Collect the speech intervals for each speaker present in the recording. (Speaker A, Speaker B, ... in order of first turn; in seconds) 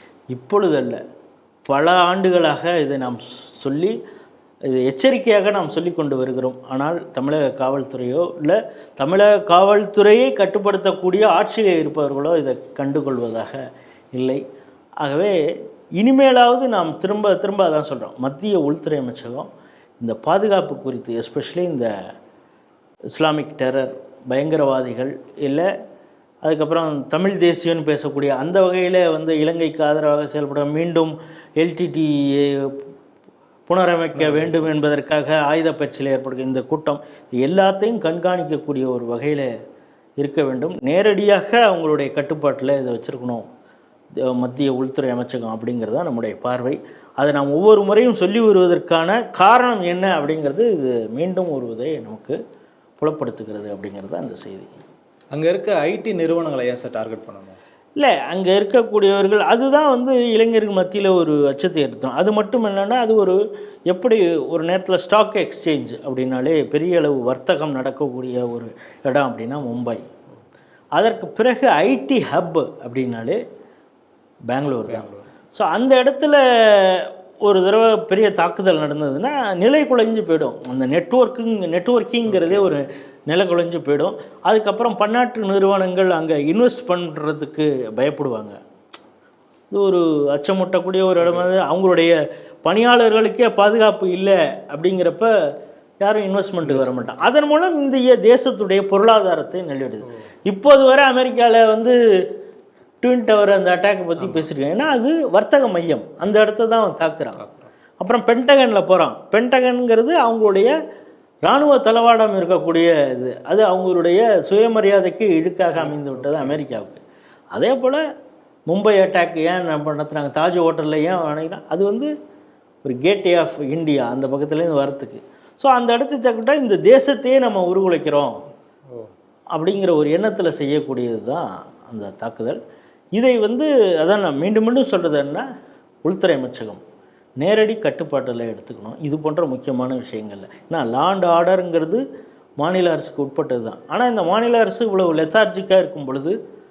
Speaker A: 0.3-1.0, 1.7-4.0, 4.7-13.6, 14.1-14.4, 15.0-15.3, 16.0-19.5, 20.0-21.9, 23.2-25.7, 26.4-32.8, 33.7-39.5, 40.2-43.5, 44.2-52.4, 53.0-54.7, 58.0-63.4, 63.9-70.0, 71.0-73.4, 74.5-88.6, 89.7-95.3, 96.0-102.0, 103.0-107.4, 108.0-110.8, 111.5-117.0, 117.5-118.0, 118.7-122.1, 122.8-128.3, 129.6-132.6, 133.2-135.4, 136.0-136.8, 137.4-142.0, 142.6-146.4
Speaker B: 34.2-34.6, 55.3-57.6, 74.9-75.2, 82.3-82.7, 91.2-91.5, 96.6-97.2, 107.4-107.7, 115.8-116.6